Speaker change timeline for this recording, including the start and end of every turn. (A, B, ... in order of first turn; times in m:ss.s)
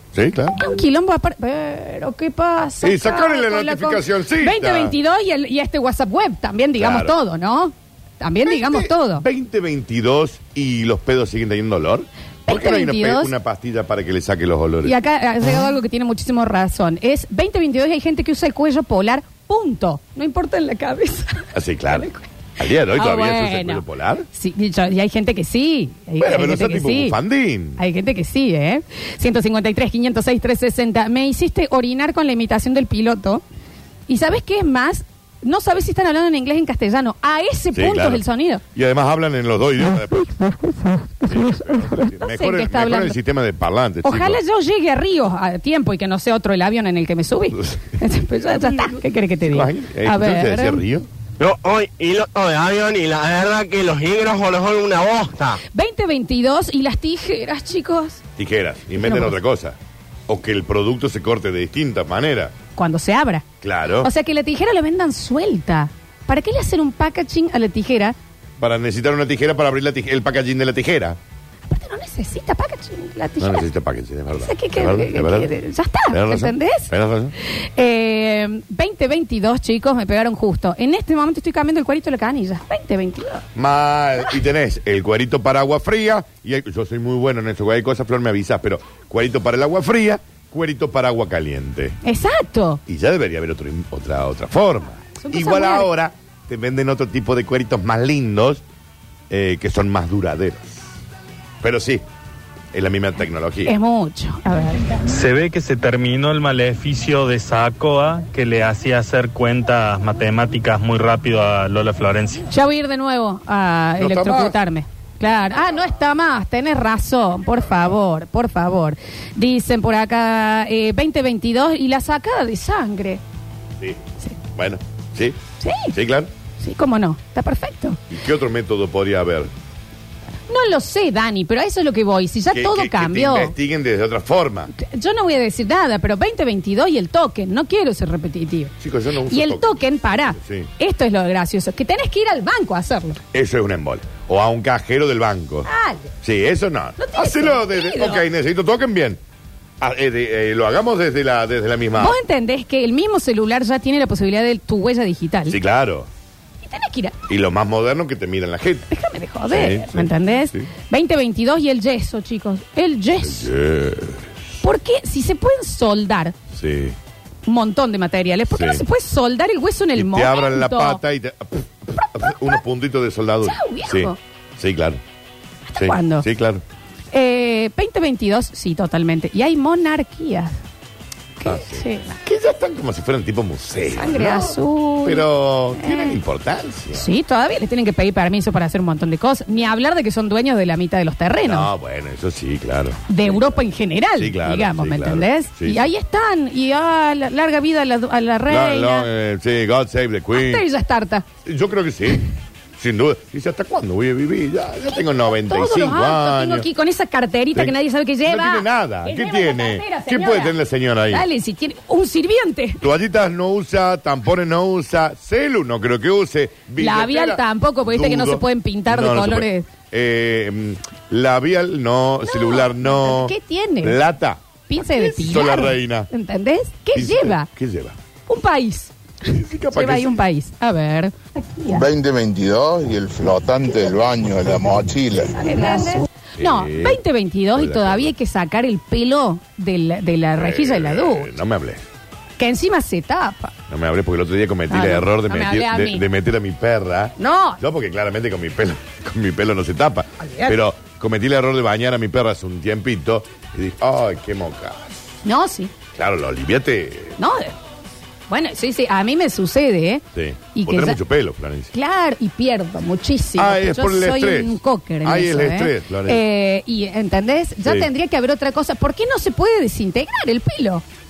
0:00.1-0:00.6 A
0:00.6-0:09.2 B
0:02.8-0:05.0 A
0:06.8-0:07.1 A
0:08.4-0:15.0 A
0:12.5-0:13.3 B
0:14.8-0:22.3 B
0:21.5-0:24.3 A
0:22.8-0:27.2 B
0:26.2-0:27.8 A
0:27.8-0:33.4 B
0:34.1-0:38.6 B
0:37.7-0:38.2 A
0:38.7-0:40.4 A
0:41.2-0:44.4 A
0:41.5-0:43.2 B
0:44.0-0:50.8 B
0:47.6-0:47.9 A
0:48.5-0:51.1 A
0:51.4-0:55.5 C
0:55.7-0:58.2 B
0:58.4-0:59.8 A
0:59.0-0:59.3 B
1:00.3-1:02.5 A
1:02.8-1:03.4 B
1:03.6-1:04.1 A
1:04.0-1:08.2 B
1:08.6-1:11.2 A
1:11.7-1:13.6 B
1:13.4-1:15.5 A
1:14.4-1:16.9 B
1:16.1-1:17.3 A
1:17.5-1:23.4 B
1:23.5-1:32.0 A
1:32.0-1:32.8 B
1:32.8-1:38.6 A
1:35.2-1:35.9 B
1:39.3-1:40.8 A
1:41.6-1:42.0 A
1:42.7-1:43.7 A
1:43.6-1:45.0 B
1:45.1-1:52.4 D
1:52.5-2:03.2 B
1:54.0-1:54.6 A
2:04.5-2:05.4 A
2:05.6-2:05.9 B
2:05.9-2:06.3 A
2:06.6-2:08.0 B
2:08.1-2:09.5 A
2:10.5-2:13.5 B
2:12.5-2:14.7 A
2:14.8-2:18.7 B
2:18.8-2:20.7 A
2:19.3-2:23.2 B
2:23.3-2:25.7 A
2:25.7-2:26.1 B
2:26.2-2:29.2 A
2:27.0-2:28.2 B
2:29.8-2:32.2 A
2:32.0-2:35.6 B
2:35.5-2:36.1 A
2:36.6-2:37.1 B
2:37.3-2:38.9 A
2:38.9-2:43.5 B
2:39.5-2:40.7 A
2:43.2-2:44.3 A
2:44.6-2:46.3 B
2:46.5-2:47.0 A
2:47.4-2:51.0 B
2:48.5-2:48.8 A
2:49.9-2:55.0 A
2:53.4-2:54.2 B
2:55.7-2:56.2 B
2:55.8-2:56.6 A
2:57.1-3:00.5 B
3:01.4-3:02.1 B
3:01.4-3:07.0 A
3:03.9-3:06.2 B
3:06.9-3:11.7 B
3:11.4-3:13.6 A
3:13.1-3:19.1 B
3:14.2-3:15.8 A
3:18.5-3:20.6 A
3:20.3-3:21.2 B
3:21.4-3:26.6 A
3:24.9-3:30.6 B
3:27.5-3:31.3 A
3:31.1-3:32.8 B
3:32.8-3:46.1 A
3:36.8-3:39.7 B
3:42.3-3:44.0 B
3:44.7-3:47.5 B
3:46.9-3:48.0 A
3:48.3-3:48.9 B
3:49.3-3:50.2 A
3:49.7-3:51.8 B
3:51.7-3:55.3 E
3:55.3-4:01.3 B
3:56.4-3:57.0 A
3:57.5-3:58.1 A
4:00.4-4:01.8 A
4:02.4-4:03.5 B
4:03.7-4:14.8 A
4:04.7-4:06.0 B
4:07.2-4:07.6 B
4:10.2-4:10.6 B
4:15.2-4:15.7 B
4:16.0-4:17.2 A
4:17.2-4:17.6 B
4:18.3-4:20.0 B
4:20.1-4:21.7 A
4:20.5-4:21.0 B
4:21.7-4:30.8 B
4:23.4-4:26.2 A
4:27.6-4:27.9 A